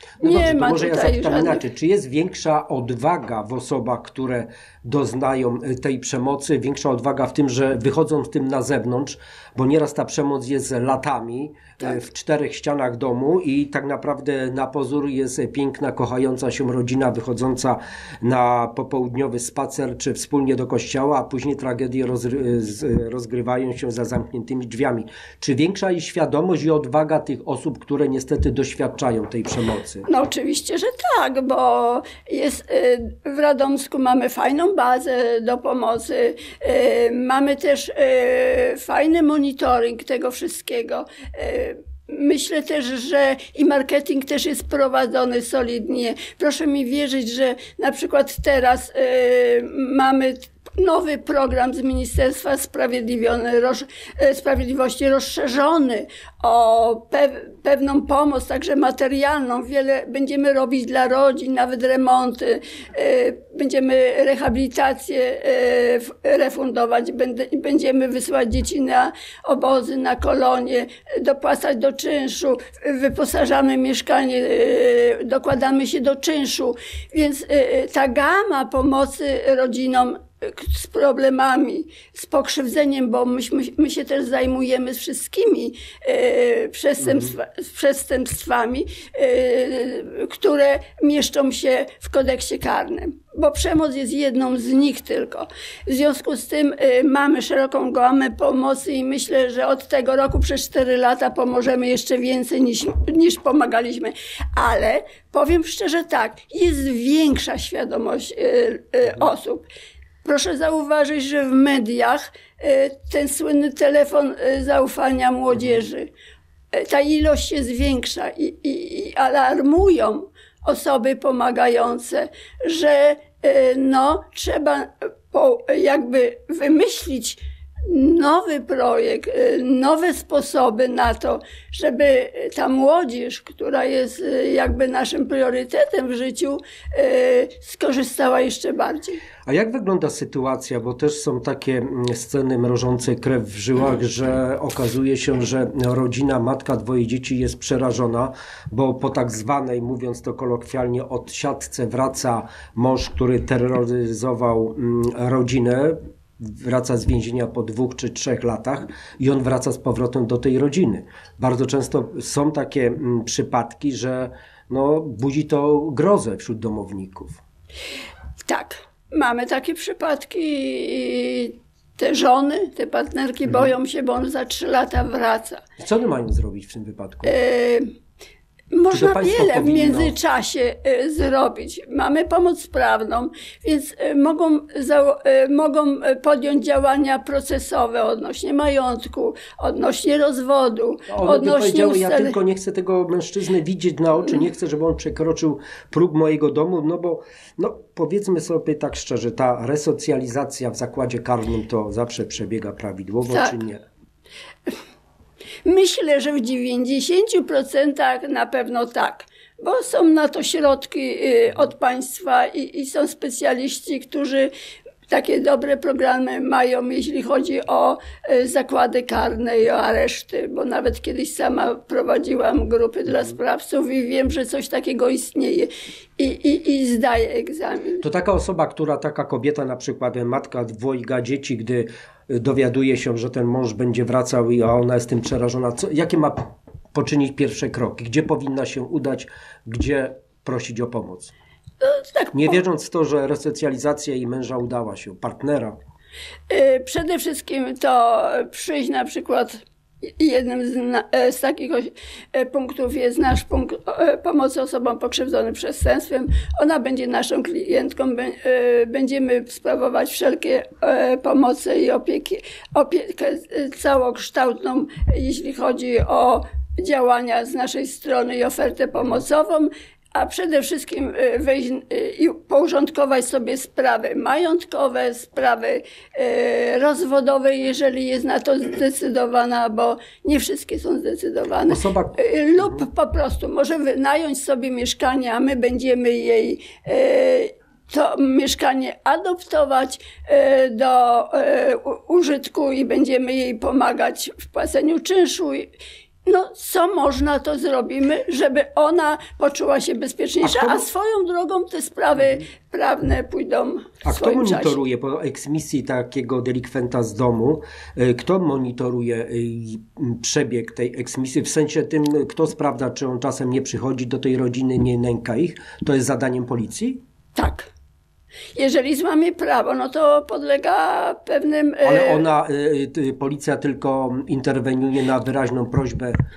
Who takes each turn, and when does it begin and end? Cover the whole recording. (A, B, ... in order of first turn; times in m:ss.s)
0:00.2-0:30.0 A
0:00.2-0:01.6 B
0:30.0-1:49.7 B
1:27.0-1:27.3 A
1:50.2-1:56.1 B
1:55.5-1:55.8 A
1:56.7-2:19.2 B
2:19.4-2:47.4 A
2:48.4-2:55.6 B
2:55.8-2:57.4 A
2:57.2-2:57.8 B
2:58.7-3:12.4 B
2:58.9-3:00.1 A
3:11.1-3:23.8 A
3:23.3-3:23.6 B
3:25.6-3:34.5 B
3:35.1-3:48.0 B
3:43.1-3:43.3 A
3:48.0-3:56.4 A
3:56.9-4:01.3 A
4:01.8-4:02.6 B
4:02.3-4:05.8 A
4:06.5-4:09.6 B
4:10.2-4:55.7 B
4:41.7-4:42.8 A
4:56.2-5:04.8 B
5:00.4-5:00.9 A
5:04.0-5:17.0 A
5:17.3-5:17.7 B
5:18.5-5:22.2 B
5:21.8-5:26.2 A